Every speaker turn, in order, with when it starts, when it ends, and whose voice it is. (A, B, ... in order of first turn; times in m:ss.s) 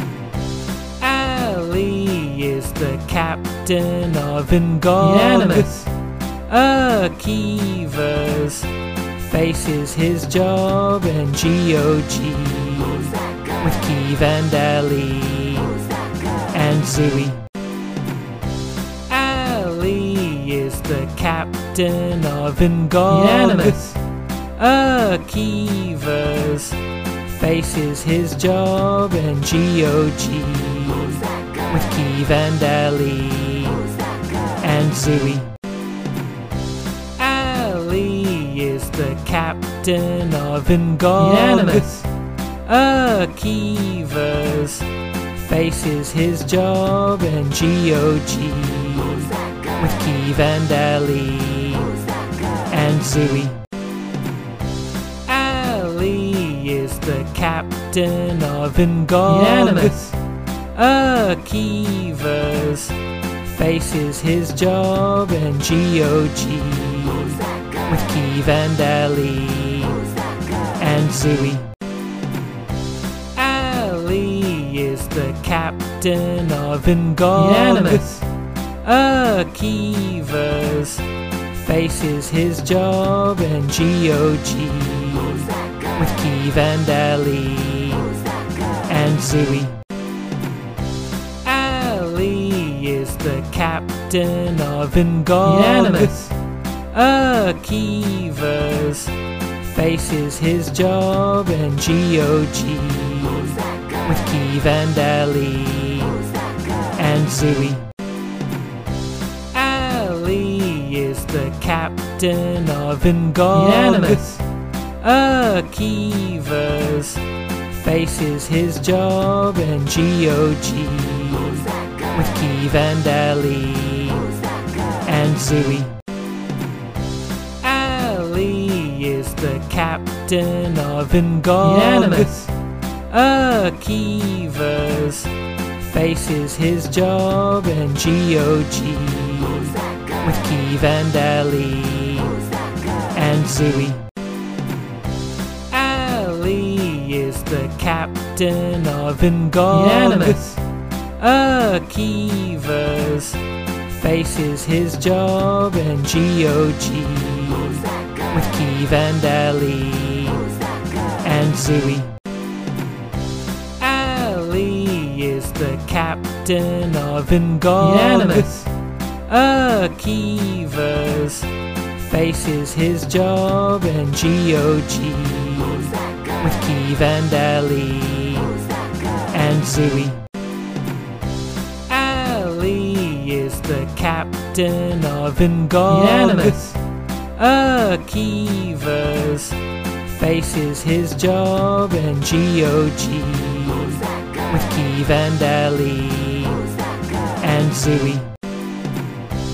0:01.0-0:05.9 A
0:06.5-0:08.7 A
0:09.3-0:15.7 A
0:16.5-0:17.4 A
0:19.1-0:24.0 A
0:24.6-0:26.8 A
0:27.3-0:33.8 A
0:34.6-0:35.5 A
0:37.2-0:42.1 A
0:42.6-0:44.8 A
0:45.4-0:51.9 A
0:52.7-0:53.6 A
0:55.2-1:00.2 A
1:00.7-1:03.0 A
1:03.5-1:10.0 A
1:10.8-1:11.7 A
1:13.3-1:18.2 A
1:18.8-1:21.0 A
1:21.6-1:28.1 A
1:28.9-1:29.8 A
1:31.4-1:36.3 A
1:36.9-1:39.1 A
1:39.7-1:46.2 A
1:47.0-1:47.9 A
1:49.5-1:54.4 A
1:55.0-1:57.2 A
1:57.8-2:04.3 A
2:05.0-2:05.9 A
2:07.6-2:12.5 A
2:13.1-2:15.3 A
2:15.9-2:22.3 A
2:23.1-2:24.0 A
2:25.7-2:30.6 A
2:31.2-2:33.4 A
2:34.0-2:40.4 A
2:41.2-2:42.1 A
2:43.8-2:48.7 A
2:49.3-2:51.5 A
2:52.1-2:58.5 A
2:59.3-3:00.2 A
3:01.9-3:06.8 A
3:07.4-3:09.6 A
3:10.1-3:16.6 A
3:17.4-3:18.3 A